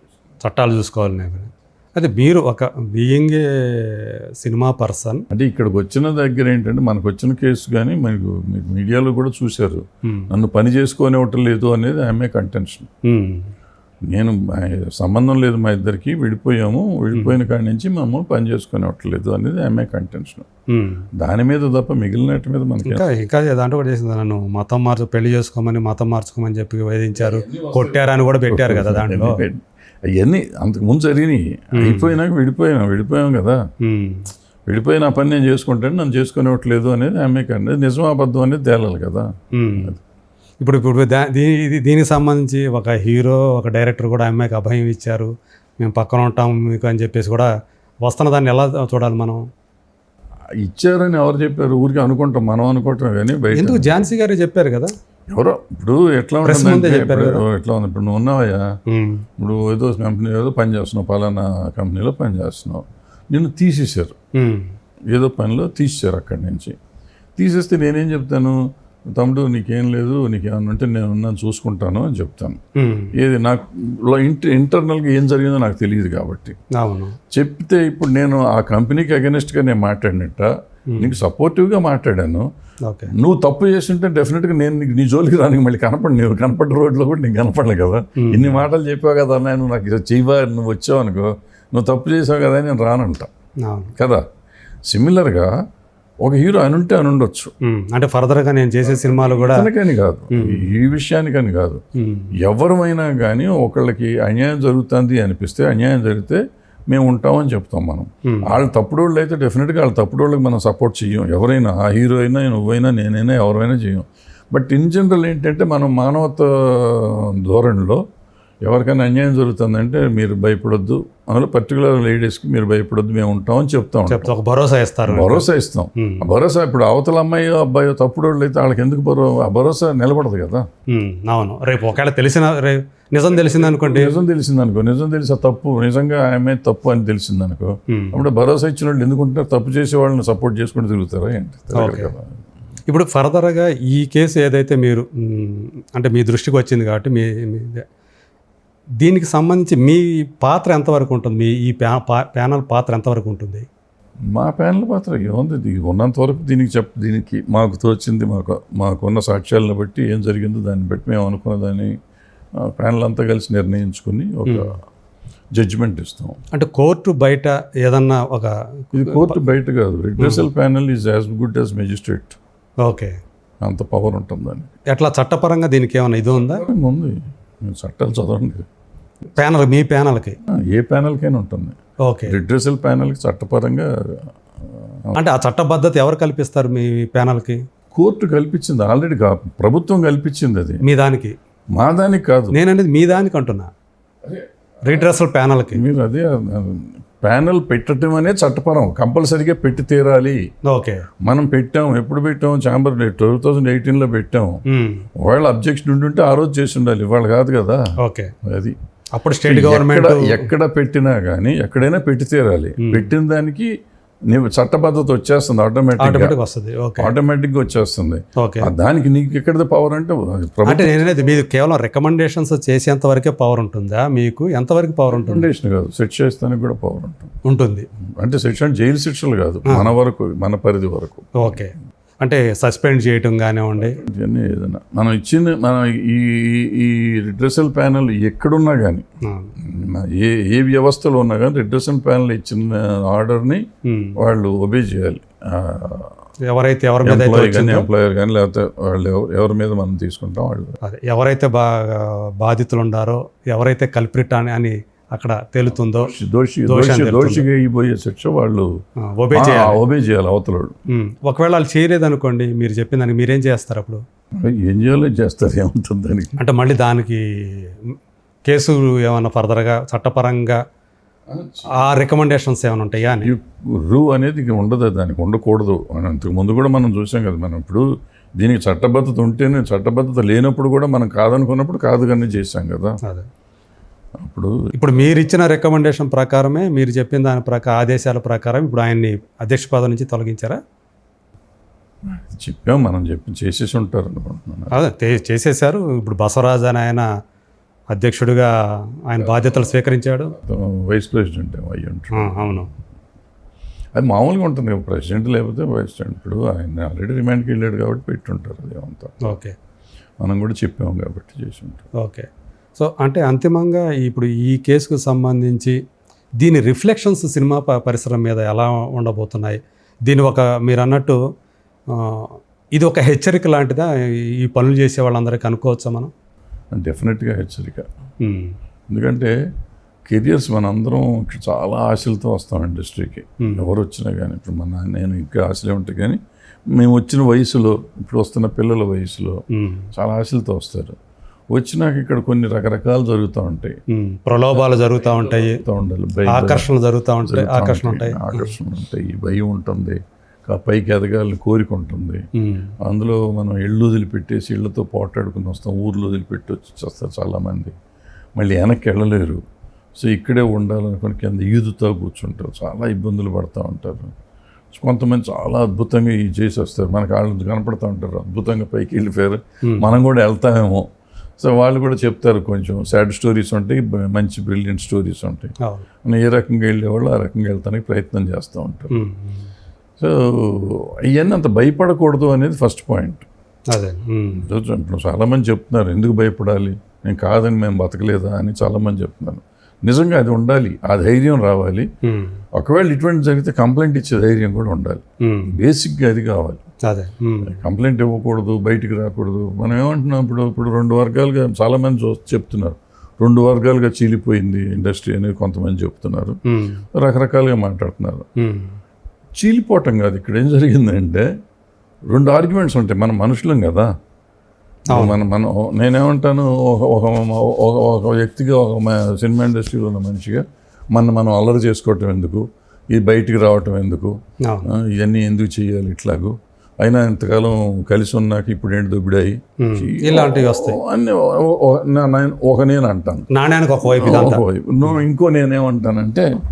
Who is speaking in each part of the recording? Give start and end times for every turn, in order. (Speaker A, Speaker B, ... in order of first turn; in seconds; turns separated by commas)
Speaker A: 0.4-5.2, Speaker B: 5.3-12.9, Speaker A: 13.1-13.4, Speaker B: 14.1-20.4, Speaker A: 20.7-21.1, Speaker B: 21.2-23.0, Speaker A: 22.8-29.4, Speaker B: 27.2-33.6, Speaker A: 31.8-32.1, Speaker A: 33.8-34.2, Speaker B: 34.7-39.2, Speaker A: 39.6-39.9, Speaker A: 40.6-47.5, Speaker A: 48.0-49.4, Speaker B: 50.6-54.0, Speaker A: 53.5-54.9, Speaker B: 55.3-58.6, Speaker A: 56.4-57.4, Speaker A: 58.9-59.2, Speaker B: 59.4-64.1, Speaker A: 64.3-64.7, Speaker B: 65.1-66.8, Speaker B: 67.4-68.6, Speaker B: 69.1-72.6, Speaker A: 72.8-73.1, Speaker B: 73.1-76.6, Speaker A: 76.8-77.2, Speaker B: 77.3-82.5, Speaker A: 82.8-83.1, Speaker B: 83.1-93.3, Speaker A: 88.2-88.5, Speaker A: 93.6-93.9, Speaker B: 94.0-94.2, Speaker B: 94.9-95.5, Speaker B: 96.2-97.5, Speaker A: 97.6-99.7, Speaker B: 98.8-101.8, Speaker A: 100.3-100.7, Speaker A: 102.0-102.3, Speaker B: 102.4-118.0, Speaker A: 108.3-108.5, Speaker B: 118.7-124.3, Speaker A: 124.1-125.5, Speaker B: 125.1-130.7, Speaker A: 130.9-134.1, Speaker B: 133.3-142.3, Speaker A: 137.9-138.2, Speaker A: 141.7-142.1, Speaker A: 142.9-147.8, Speaker A: 149.0-153.6, Speaker B: 154.3-161.9, Speaker B: 162.6-164.7, Speaker A: 164.4-164.7, Speaker B: 165.5-166.4, Speaker A: 166.5-169.4, Speaker B: 168.9-172.3, Speaker A: 170.2-170.4, Speaker A: 172.8-173.1, Speaker B: 173.6-174.7, Speaker A: 174.9-176.6, Speaker B: 176.3-178.7, Speaker A: 179.3-180.3, Speaker B: 180.5-181.8, Speaker A: 182.0-182.4, Speaker B: 182.3-185.2, Speaker A: 185.2-187.6, Speaker B: 187.9-190.8, Speaker A: 190.8-191.3, Speaker B: 191.7-192.6, Speaker A: 192.5-193.7, Speaker B: 194.2-195.1, Speaker A: 194.8-195.8, Speaker B: 195.7-200.4, Speaker A: 200.7-201.1, Speaker B: 201.2-204.6, Speaker A: 204.7-205.1, Speaker B: 205.2-207.8, Speaker A: 208.0-208.3, Speaker B: 208.4-208.8, Speaker A: 209.1-210.4, Speaker B: 209.4-213.7, Speaker A: 212.8-213.1, Speaker B: 214.3-216.3, Speaker A: 216.0-217.1, Speaker B: 217.0-221.4, Speaker A: 218.4-218.7, Speaker A: 220.7-225.5, Speaker B: 225.1-227.3, Speaker A: 227.4-227.9, Speaker B: 228.2-231.6, Speaker A: 231.4-234.0, Speaker B: 233.8-239.0, Speaker A: 239.2-239.5, Speaker B: 239.6-243.6, Speaker A: 243.8-244.2, Speaker B: 244.2-246.1, Speaker A: 246.5-247.9, Speaker B: 247.0-250.8, Speaker A: 250.8-256.1, Speaker B: 255.7-258.7, Speaker A: 256.7-257.4, Speaker A: 259.2-259.8, Speaker B: 259.3-260.8, Speaker A: 260.9-264.0, Speaker B: 264.4-266.4, Speaker A: 266.4-267.9, Speaker A: 268.5-270.6, Speaker B: 271.3-272.0, Speaker A: 271.7-273.3, Speaker B: 273.1-277.9, Speaker B: 278.4-282.9, Speaker B: 284.2-285.3, Speaker A: 284.7-290.6, Speaker B: 292.1-294.8, Speaker A: 294.7-297.1, Speaker A: 297.9-298.5, Speaker A: 299.1-300.4, Speaker B: 299.2-299.8, Speaker B: 300.4-302.6, Speaker A: 302.2-302.7, Speaker B: 303.9-309.4, Speaker A: 309.2-309.5, Speaker B: 310.2-311.9, Speaker A: 312.0-315.8, Speaker A: 316.4-321.2, Speaker A: 321.9-326.1, Speaker B: 326.7-327.9, Speaker A: 328.2-328.5, Speaker B: 328.9-329.3, Speaker B: 330.1-336.2, Speaker B: 336.7-339.4, Speaker A: 339.5-339.9, Speaker B: 339.9-341.0, Speaker B: 341.5-343.8, Speaker A: 343.9-345.6, Speaker B: 344.5-346.7, Speaker A: 346.3-348.5, Speaker B: 347.2-352.2, Speaker A: 352.4-352.7, Speaker B: 352.8-357.7, Speaker B: 358.4-359.4, Speaker B: 360.0-364.1, Speaker B: 364.7-370.8, Speaker B: 371.4-378.9, Speaker A: 378.9-379.5, Speaker B: 380.0-383.2, Speaker A: 383.7-384.4, Speaker B: 384.4-391.9, Speaker A: 392.0-392.4, Speaker B: 392.6-396.6, Speaker A: 395.2-395.5, Speaker A: 396.9-397.6, Speaker B: 397.5-406.4, Speaker A: 406.5-406.8, Speaker B: 406.9-408.2, Speaker A: 408.4-408.8, Speaker B: 409.4-411.2, Speaker B: 412.1-413.9, Speaker A: 414.9-415.2, Speaker B: 414.9-424.1, Speaker A: 424.4-424.7, Speaker B: 424.7-433.3, Speaker A: 429.6-430.8, Speaker A: 433.3-434.4, Speaker B: 433.8-436.3